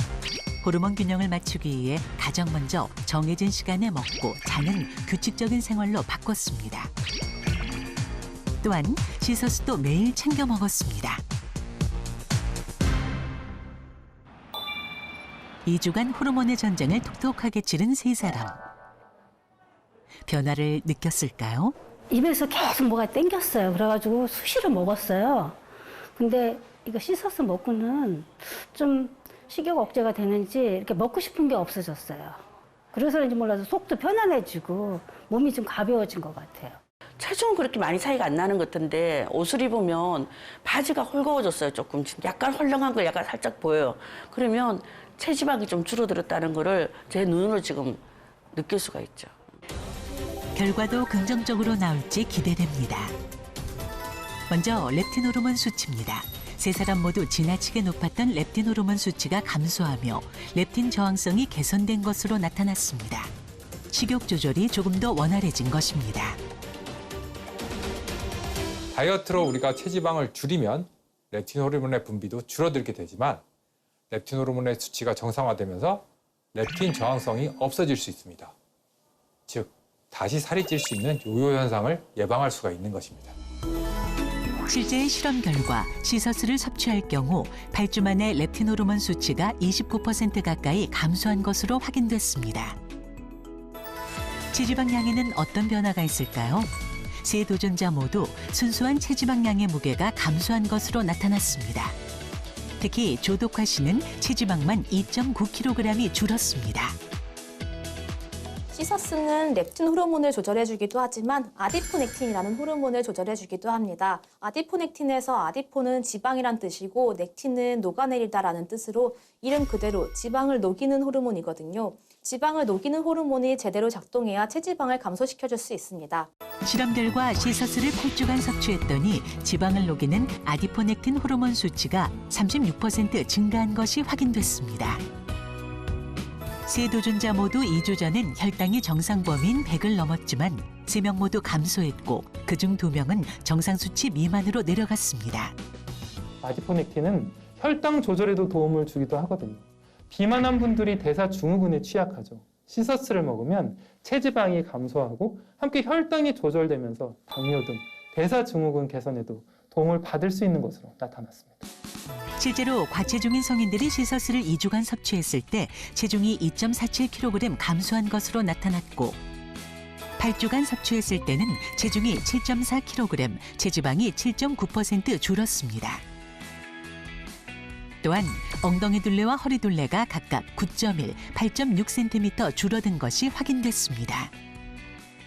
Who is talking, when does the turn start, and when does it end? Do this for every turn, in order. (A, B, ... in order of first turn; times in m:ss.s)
0:00.6-0:06.9 A
0:08.6-0:11.2 A
0:15.6-0:18.6 A
0:20.3-0:21.8 A
0:22.1-0:25.6 B
0:26.2-0:32.4 B
0:32.9-0:36.8 B
0:37.2-0:48.0 C
0:48.6-0:49.3 C
0:50.6-0:53.1 A
0:54.5-1:03.3 A
1:03.9-1:06.4 A
1:08.9-1:13.4 D
1:14.1-1:18.5 D
1:19.5-1:23.4 D
1:24.7-1:32.8 A
1:34.5-1:42.0 A
1:42.8-1:47.0 A
1:48.7-2:06.3 E
2:06.6-2:15.0 A
2:16.7-2:25.6 A
2:26.4-2:41.7 F
2:42.4-2:49.2 A
2:50.2-2:56.0 A
2:58.0-3:04.3 A